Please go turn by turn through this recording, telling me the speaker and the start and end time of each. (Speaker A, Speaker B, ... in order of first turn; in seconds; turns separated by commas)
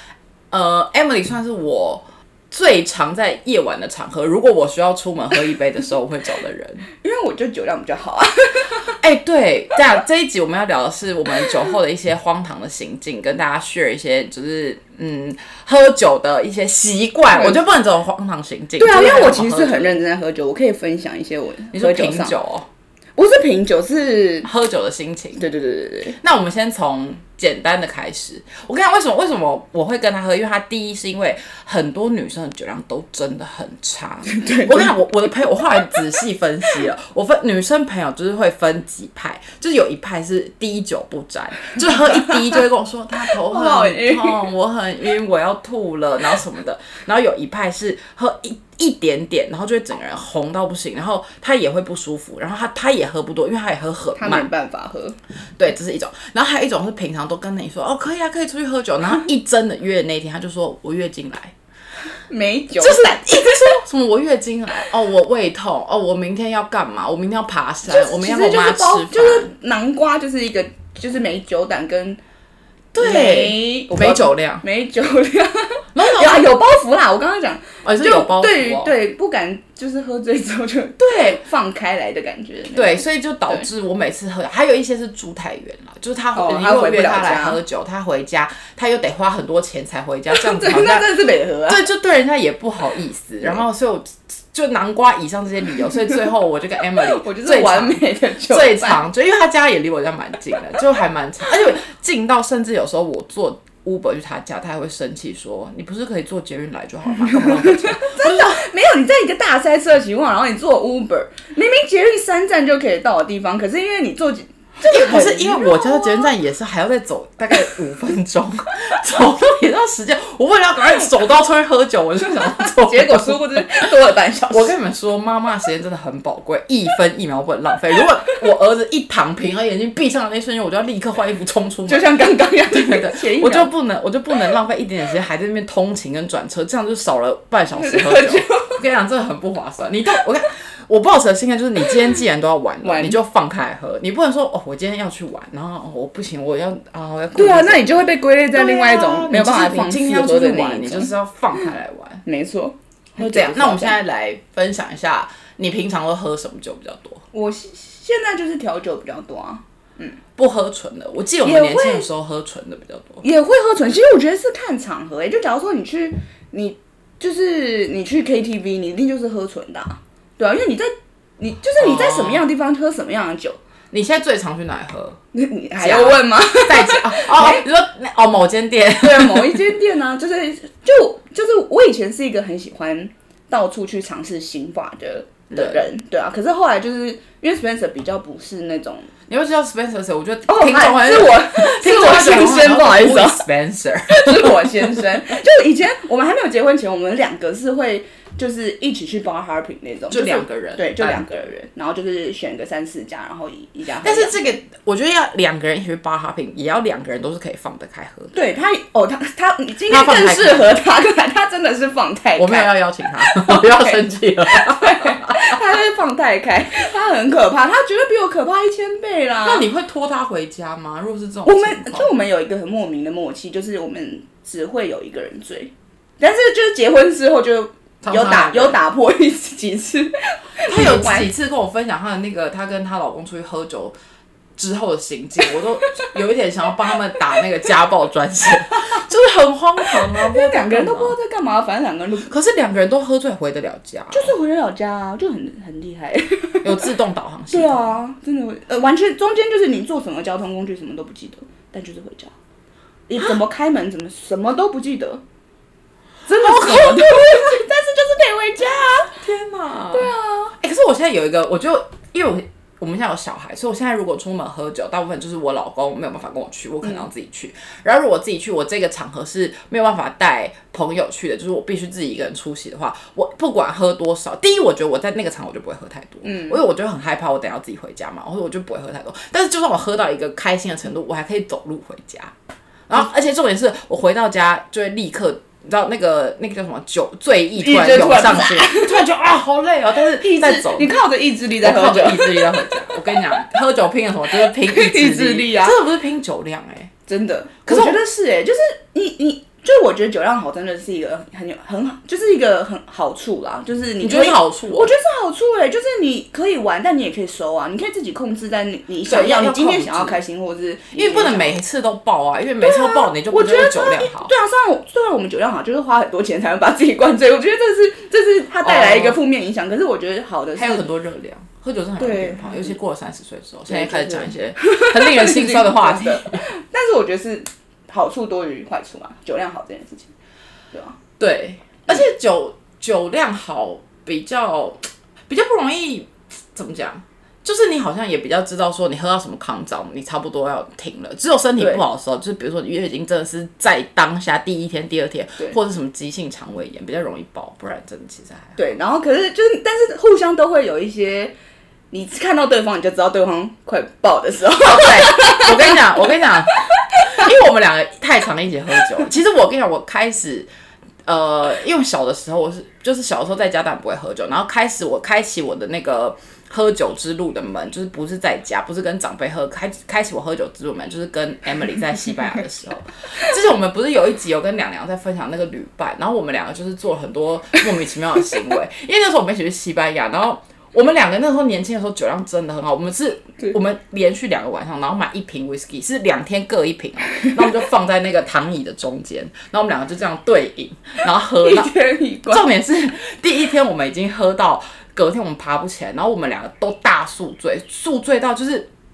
Speaker A: 0.5-6.9, Speaker B: 7.0-9.0, Speaker A: 8.9-20.0, Speaker B: 18.8-22.4, Speaker A: 21.7-22.7, Speaker B: 23.2-24.5, Speaker A: 24.4-25.4, Speaker B: 25.4-26.2, Speaker A: 26.2-54.5, Speaker B: 34.3-35.0, Speaker B: 43.2-44.5, Speaker B: 54.2-55.2, Speaker A: 55.6-61.5, Speaker B: 62.3-63.8, Speaker A: 62.8-69.5, Speaker B: 67.9-72.2, Speaker A: 72.9-74.7, Speaker B: 73.0-83.7, Speaker A: 76.0-76.5, Speaker A: 77.8-78.9, Speaker A: 81.0-81.4, Speaker A: 82.7-91.1, Speaker B: 86.3-87.6, Speaker B: 90.3-91.9, Speaker A: 91.7-108.7, Speaker B: 97.0-99.0, Speaker B: 107.2-116.3, Speaker A: 114.8-123.9, Speaker B: 122.6-124.8, Speaker A: 124.5-132.1, Speaker B: 131.9-133.7, Speaker A: 132.7-152.2, Speaker B: 137.8-138.8, Speaker B: 142.8-143.2, Speaker B: 147.3-151.7, Speaker B: 152.3-154.0, Speaker A: 153.2-157.2, Speaker B: 157.3-160.2, Speaker A: 160.4-163.2, Speaker B: 161.4-162.1, Speaker B: 163.2-173.6, Speaker A: 171.8-172.4, Speaker A: 173.9-175.2, Speaker B: 175.3-177.7, Speaker A: 175.8-179.7, Speaker B: 179.0-189.1, Speaker A: 185.5-185.9, Speaker A: 189.3-195.1, Speaker B: 190.5-193.4, Speaker B: 194.1-204.6, Speaker A: 200.1-201.3, Speaker A: 204.0-208.3, Speaker B: 208.3-219.7, Speaker A: 209.9-210.7, Speaker A: 212.4-215.6, Speaker A: 219.4-222.1, Speaker B: 221.5-231.3, Speaker A: 228.0-228.8, Speaker A: 230.7-234.0, Speaker A: 234.6-241.2, Speaker B: 239.9-242.3, Speaker A: 242.3-244.3, Speaker B: 244.1-246.9, Speaker A: 246.6-247.9, Speaker B: 247.5-252.3, Speaker B: 253.1-255.2, Speaker B: 256.3-259.2, Speaker A: 256.3-257.4, Speaker A: 259.1-282.3, Speaker B: 259.9-260.5, Speaker B: 276.2-276.6, Speaker A: 282.9-290.9, Speaker B: 287.6-289.1, Speaker B: 290.2-293.5, Speaker A: 291.6-296.9, Speaker B: 294.3-295.8, Speaker B: 297.1-311.6, Speaker A: 297.7-298.0, Speaker A: 304.0-304.9, Speaker A: 309.1-310.2, Speaker A: 310.9-314.3, Speaker B: 312.6-320.9, Speaker A: 318.6-319.2, Speaker A: 320.6-326.4, Speaker B: 322.0-322.8, Speaker B: 323.7-330.1, Speaker B: 330.7-331.0, Speaker A: 331.2-348.6, Speaker B: 348.6-351.3, Speaker B: 351.9-356.0, Speaker A: 354.6-360.5, Speaker B: 356.9-357.2, Speaker A: 361.1-391.8, Speaker B: 391.4-392.5, Speaker A: 392.3-398.7